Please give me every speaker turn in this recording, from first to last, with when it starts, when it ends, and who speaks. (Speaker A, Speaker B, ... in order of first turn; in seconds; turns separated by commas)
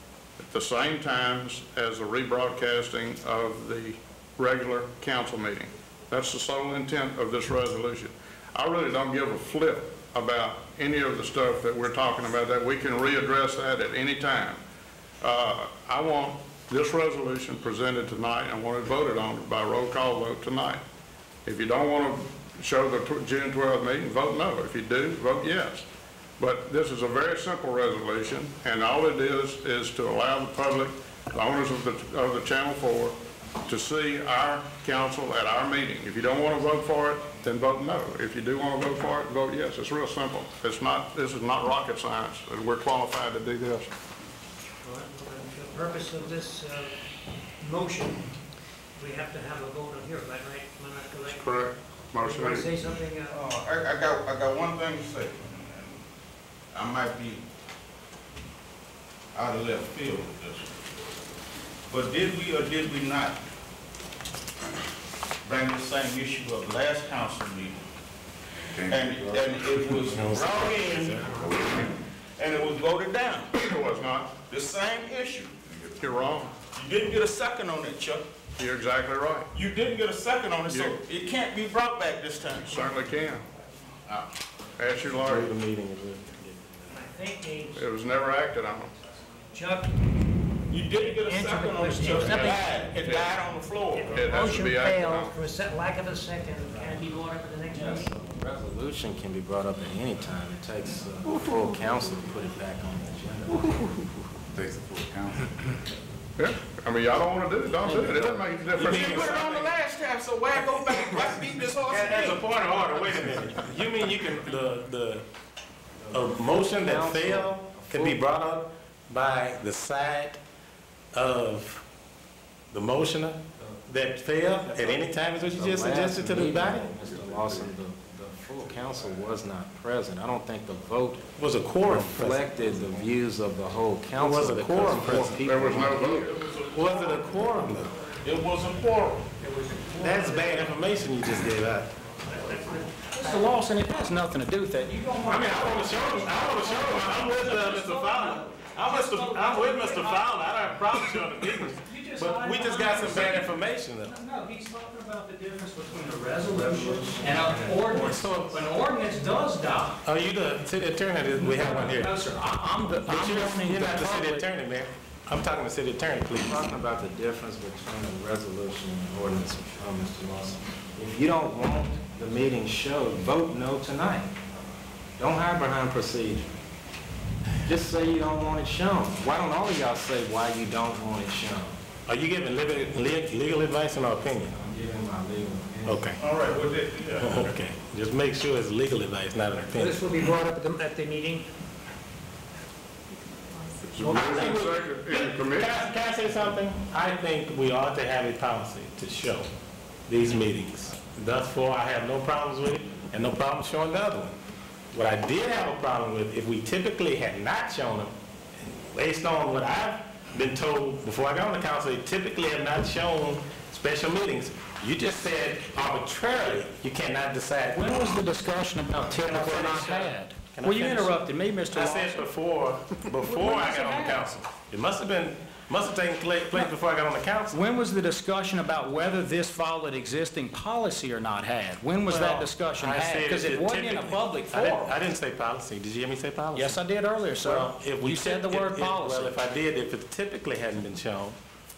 Speaker A: 0.4-14.6, Speaker A: 15.2-20.8, Speaker A: 21.4-25.9, Speaker A: 26.4-43.9, Speaker B: 44.8-47.0, Speaker B: 47.6-48.3, Speaker B: 49.0-51.7, Speaker A: 51.3-52.7, Speaker B: 52.2-53.4, Speaker C: 53.3-56.0, Speaker C: 56.7-57.4, Speaker C: 59.3-60.7, Speaker C: 61.9-63.4, Speaker C: 65.4-67.8, Speaker C: 68.8-73.5, Speaker D: 68.8-70.4, Speaker E: 70.1-71.4, Speaker D: 71.2-71.9, Speaker A: 73.5-74.3, Speaker C: 74.5-75.7, Speaker A: 76.0-76.5, Speaker C: 76.7-78.2, Speaker A: 78.5-79.5, Speaker C: 79.5-82.9, Speaker A: 80.7-81.0, Speaker A: 82.6-83.5, Speaker A: 84.8-85.5, Speaker E: 85.2-86.8, Speaker B: 86.9-87.9, Speaker A: 87.7-88.9, Speaker B: 89.5-90.0, Speaker C: 90.7-94.1, Speaker B: 90.9-92.9, Speaker A: 92.9-93.4, Speaker B: 93.9-98.1, Speaker A: 94.0-95.3, Speaker F: 96.7-97.1, Speaker F: 97.7-104.0, Speaker D: 104.5-105.5, Speaker A: 106.4-109.4, Speaker C: 108.7-112.5, Speaker E: 108.8-109.8, Speaker E: 111.9-115.3, Speaker F: 116.0-118.3, Speaker E: 116.1-120.4, Speaker E: 121.1-121.8, Speaker E: 122.7-126.9, Speaker F: 124.7-131.2, Speaker D: 126.6-127.7, Speaker D: 128.7-129.0, Speaker E: 131.4-132.4, Speaker F: 131.8-136.3, Speaker E: 134.1-135.4, Speaker A: 135.3-136.5, Speaker E: 136.7-137.9, Speaker B: 137.9-138.7, Speaker C: 138.2-139.2, Speaker B: 139.3-143.7, Speaker E: 140.0-141.9, Speaker E: 143.2-166.6, Speaker G: 143.2-145.5, Speaker B: 145.2-153.4, Speaker G: 146.9-147.5, Speaker G: 152.3-152.8, Speaker G: 155.8-159.3, Speaker F: 156.4-158.2, Speaker G: 161.4-162.1, Speaker G: 162.8-164.4, Speaker F: 166.3-174.4, Speaker F: 175.2-176.6, Speaker F: 177.6-181.8, Speaker E: 182.1-184.5, Speaker F: 184.4-186.2, Speaker E: 185.8-186.2, Speaker C: 186.2-187.5, Speaker E: 187.1-190.0, Speaker B: 189.7-191.5, Speaker A: 193.9-195.8, Speaker B: 194.0-194.6, Speaker E: 194.2-199.5, Speaker E: 200.1-204.4, Speaker E: 204.9-227.8, Speaker G: 219.4-220.1, Speaker G: 220.6-221.8, Speaker G: 227.5-234.9, Speaker E: 228.7-241.4, Speaker G: 236.5-239.3